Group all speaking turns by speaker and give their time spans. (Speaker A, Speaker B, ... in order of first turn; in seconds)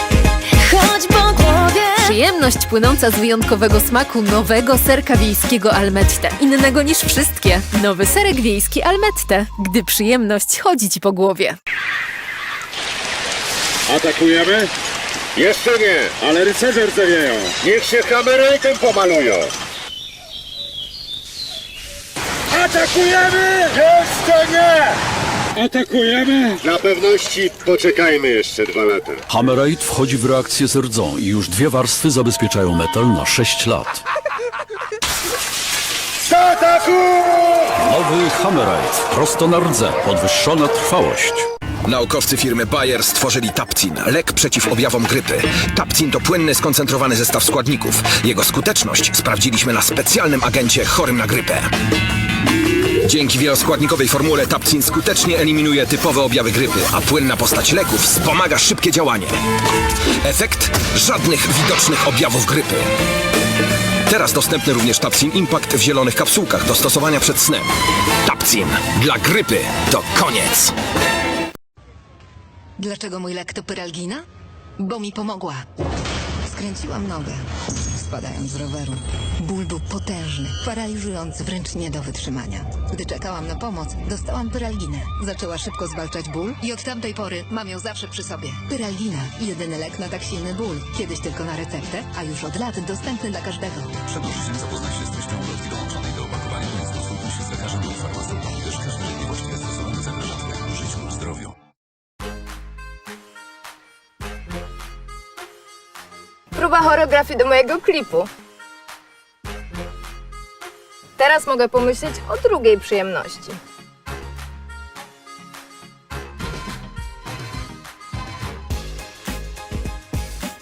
Speaker A: 2.0-11.6
Speaker B: 13.9-14.7, 15.4-19.5, 22.6-24.9, 25.6-29.2
Speaker C: 29.3-34.0, 37.8-41.5
Speaker D: 41.9-51.7, 53.0-59.4, 60.2-62.9, 64.1-67.7, 68.3-70.7
Speaker E: 72.8-74.2, 74.8-75.6, 76.5-93.9
Speaker F: 94.2-101.5
Speaker G: 106.6-108.3, 111.2-113.6